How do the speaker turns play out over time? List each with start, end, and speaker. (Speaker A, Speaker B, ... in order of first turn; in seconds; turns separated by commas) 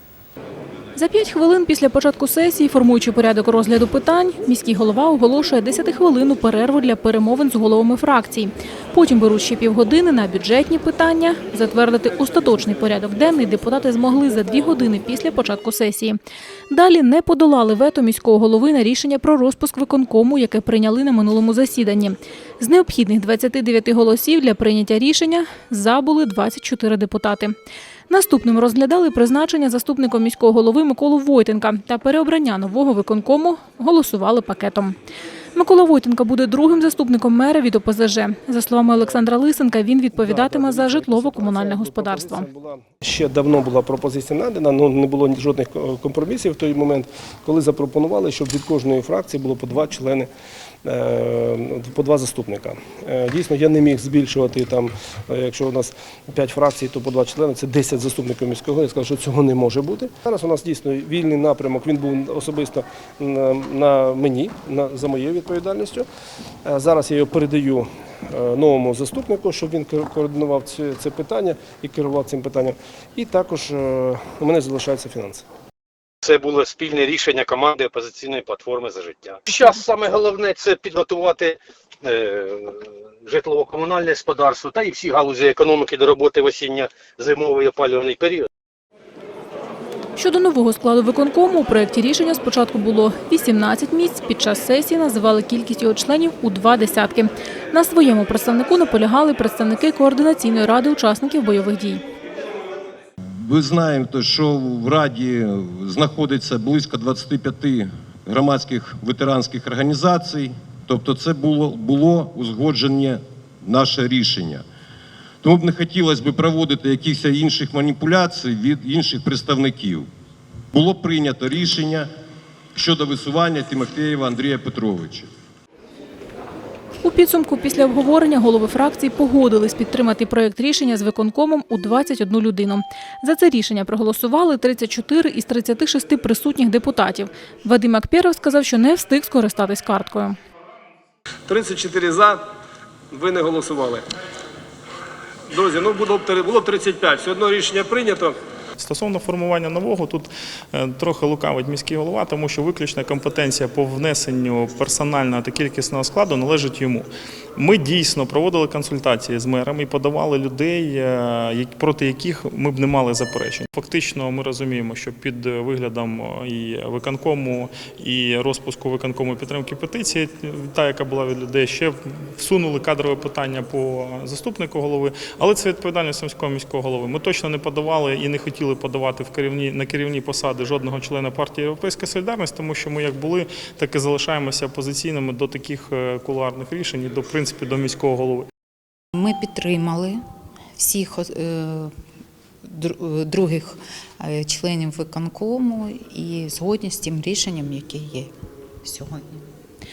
Speaker A: 1.0-16.2, Speaker A: 16.7-27.6, Speaker A: 28.1-35.0, Speaker A: 35.5-42.5, Speaker B: 40.1-50.3, Speaker B: 50.9-66.1, Speaker B: 66.7-75.4, Speaker C: 76.2-88.5, Speaker A: 90.2-102.0, Speaker D: 103.4-114.7, Speaker D: 115.4-120.1, Speaker D: 120.7-122.1, Speaker D: 122.8-125.3, Speaker A: 127.0-140.4, Speaker B: 141.5-142.4, Speaker B: 143.1-144.0, Speaker B: 145.5-148.4, Speaker E: 148.8-188.5, Speaker F: 189.2-190.2, Speaker F: 190.8-191.9, Speaker F: 192.7-198.3, Speaker F: 198.8-199.5